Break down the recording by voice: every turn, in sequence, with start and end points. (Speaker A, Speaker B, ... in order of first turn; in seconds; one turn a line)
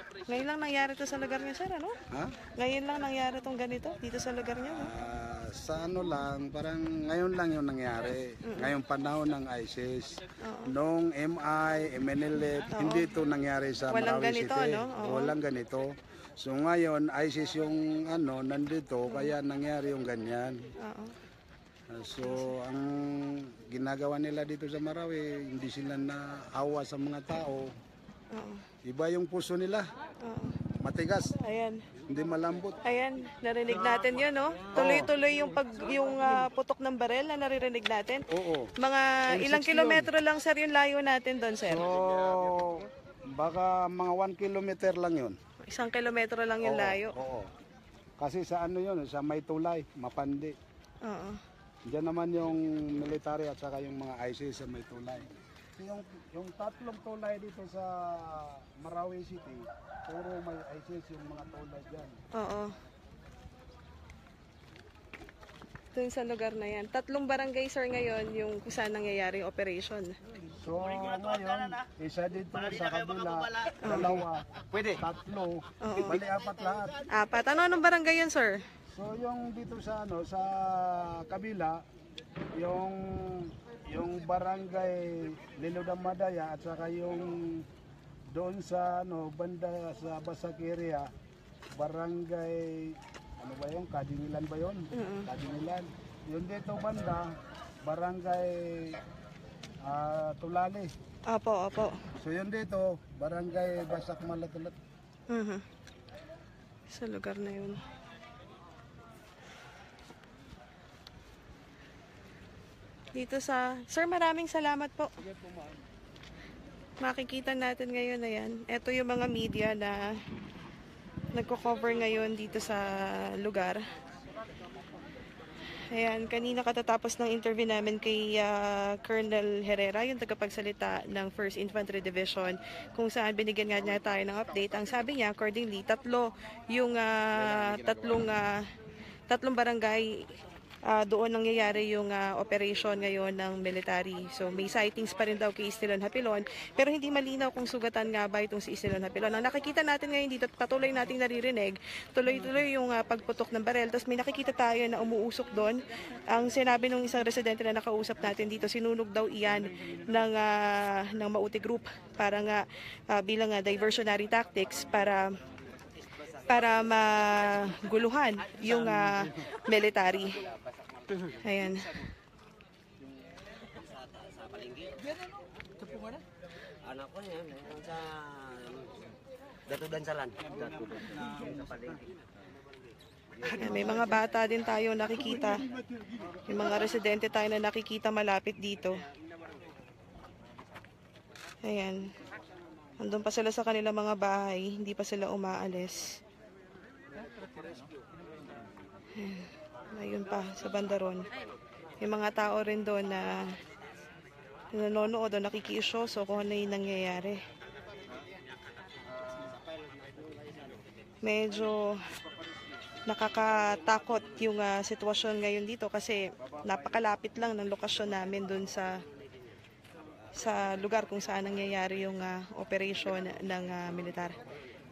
Speaker A: 0.3-1.9
Speaker A: 2.6-4.9
Speaker B: 4.7-20.6
Speaker A: 10.4-10.7
Speaker A: 12.7-13.1
Speaker A: 13.9-15.3
Speaker A: 19.1-19.3
Speaker A: 20.8-21.1
Speaker B: 21.9-27.7
Speaker A: 28.3-28.6
Speaker B: 28.9-29.9
Speaker A: 30.2-30.5
Speaker B: 30.8-31.4
Speaker A: 31.4-31.8
Speaker B: 32.1-32.8
Speaker A: 32.8-38.2
Speaker B: 34.7-35.1
Speaker B: 38.3-38.7
Speaker A: 38.8-41.9
Speaker B: 39.3-40.1
Speaker B: 41.6-45.4
Speaker A: 45.7-47.1
Speaker B: 46.6-47.5
Speaker B: 48.2-50.5
Speaker A: 51.0-51.4
Speaker B: 51.9-62.1
Speaker A: 62.4-62.7
Speaker A: 65.9-70.1
Speaker B: 70.6-77.0
Speaker A: 73.8-74.2
Speaker A: 75.8-76.2
Speaker A: 77.1-78.6
Speaker B: 78.9-81.8
Speaker B: 82.5-87.6
Speaker B: 88.3-91.1
Speaker B: 91.8-99.0
Speaker A: 94.9-95.3
Speaker B: 99.8-100.9
Speaker A: 101.3-102.0
Speaker B: 102.2-104.7
Speaker A: 105.3-105.6
Speaker A: 106.9-107.8
Speaker A: 113.1-115.1
Speaker A: 117.0-120.2
Speaker A: 121.3-123.8
Speaker A: 125.9-138.5
Speaker A: 139.3-140.2
Speaker A: 140.9-165.3
Speaker A: 166.5-170.3
Speaker A: 171.4-171.9
Speaker C: 174.4-174.9
Speaker C: 176.9-178.9
Speaker C: 179.7-182.1
Speaker A: 183.5-185.7
Speaker A: 186.5-189.0
Speaker A: 191.6-192.0
Speaker A: 193.0-196.2
Speaker A: 199.2-201.2
Speaker A: 202.0-203.3
Speaker A: 204.7-207.4
Speaker A: 211.2-211.8
Speaker A: 213.1-218.9
Speaker A: 220.4-224.4